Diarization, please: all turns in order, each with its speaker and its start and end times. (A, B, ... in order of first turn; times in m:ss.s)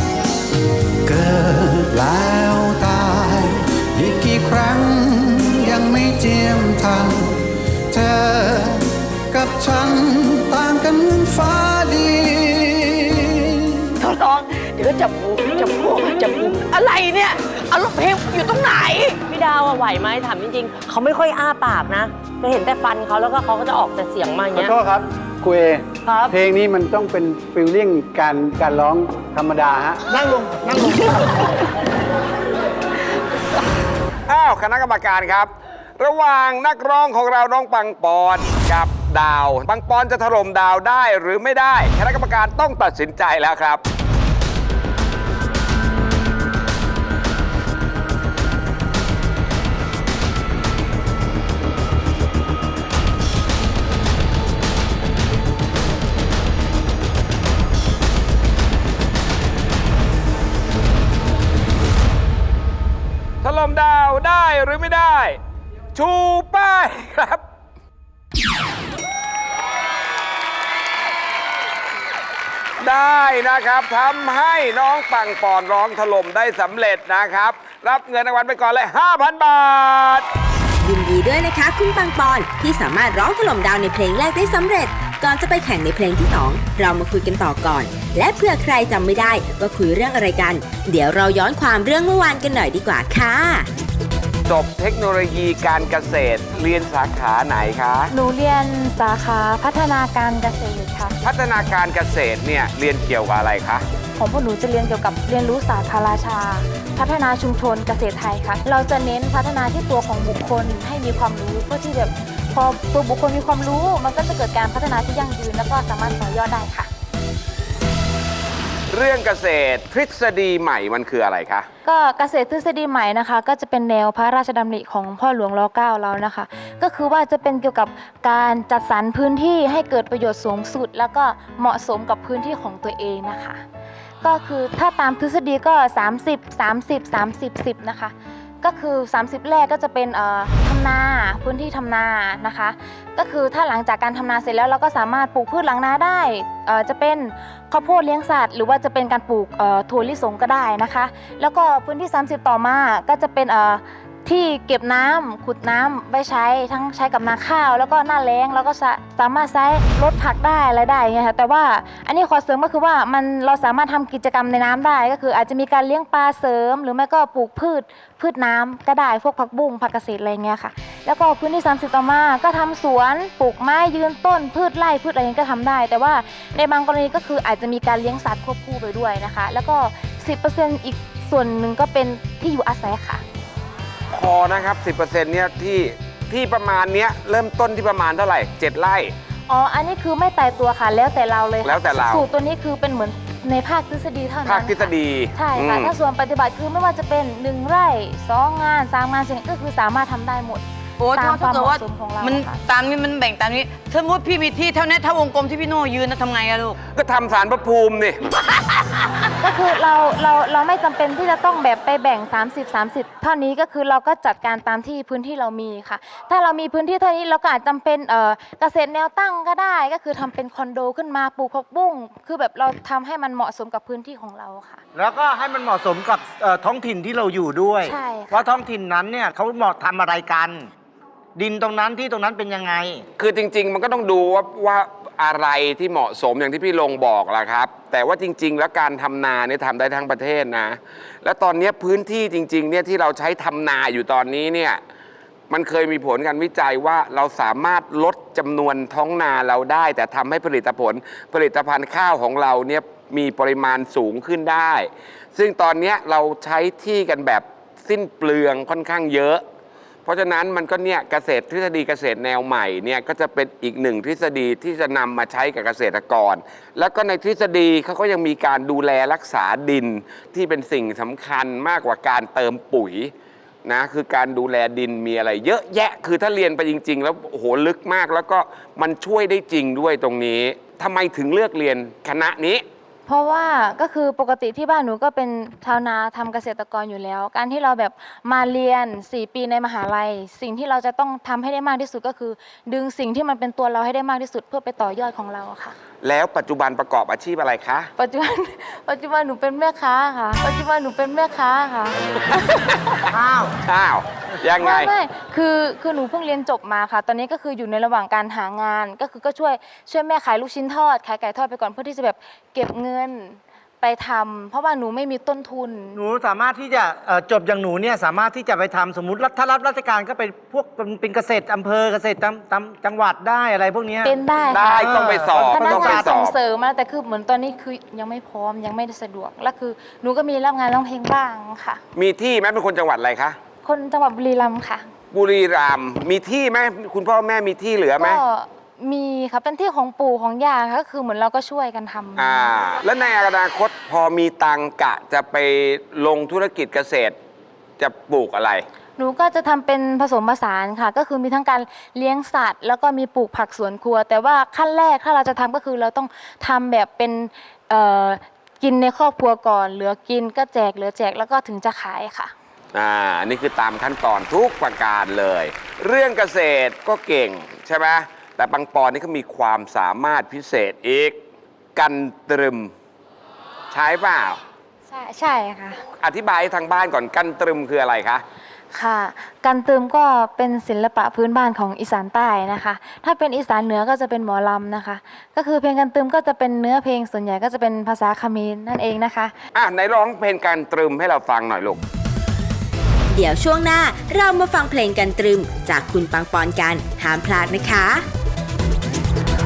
0:01.0-0:13.9 A
0:14.0-0:19.2 B
0:19.3-0:24.7 C
0:24.5-0:30.0 D
0:25.6-0:25.8 A
0:26.1-0:26.3 C
0:30.1-0:31.6 E
0:34.3-0:43.8 F
1:03.4-1:05.4 F
1:05.9-1:07.4 F
1:12.8-1:20.2 F
1:20.8-1:33.7 G
1:34.5-1:38.1 F
1:38.1-1:41.1 H
1:41.2-1:43.8 F
1:44.2-1:56.9 H
1:58.9-2:01.7 F
2:01.8-2:13.6 H
2:14.2-3:03.2 H
3:04.1-3:09.1 F
3:09.5-3:22.6 H
3:11.6-3:12.2 F
3:14.4-3:15.9 F
3:21.0-3:26.8 B
3:26.9-3:28.2 F
3:29.4-3:44.8 H
3:45.0-3:50.7 E
3:47.8-3:48.5 H
3:51.4-3:53.0 E
3:53.2-4:04.8 F
4:05.5-4:19.4 F
4:20.0-4:33.1 F
4:33.6-4:42.6 F
4:43.0-4:55.8 H
4:56.0-4:57.9 F
4:58.0-5:02.0 H
5:03.1-5:03.5 E
5:03.6-5:04.9 F
5:04.6-5:16.0 H
5:16.0-5:24.2 E
5:24.0-5:31.8 H
5:24.5-5:26.4 F
5:24.8-5:26.1 E
5:31.9-5:33.4 F
5:33.6-5:34.8 H
5:35.1-5:38.2 F
5:38.0-5:42.5 H
5:42.2-5:47.2 F
5:47.8-5:48.6 F
5:49.0-6:02.3 H
6:02.7-6:11.2 F
6:11.8-6:12.7 F
6:13.7-6:14.4 F
6:14.9-6:15.8 H
6:16.0-6:18.2 F
6:18.7-6:29.3 H
6:29.5-6:31.8 F
6:33.1-6:38.0 G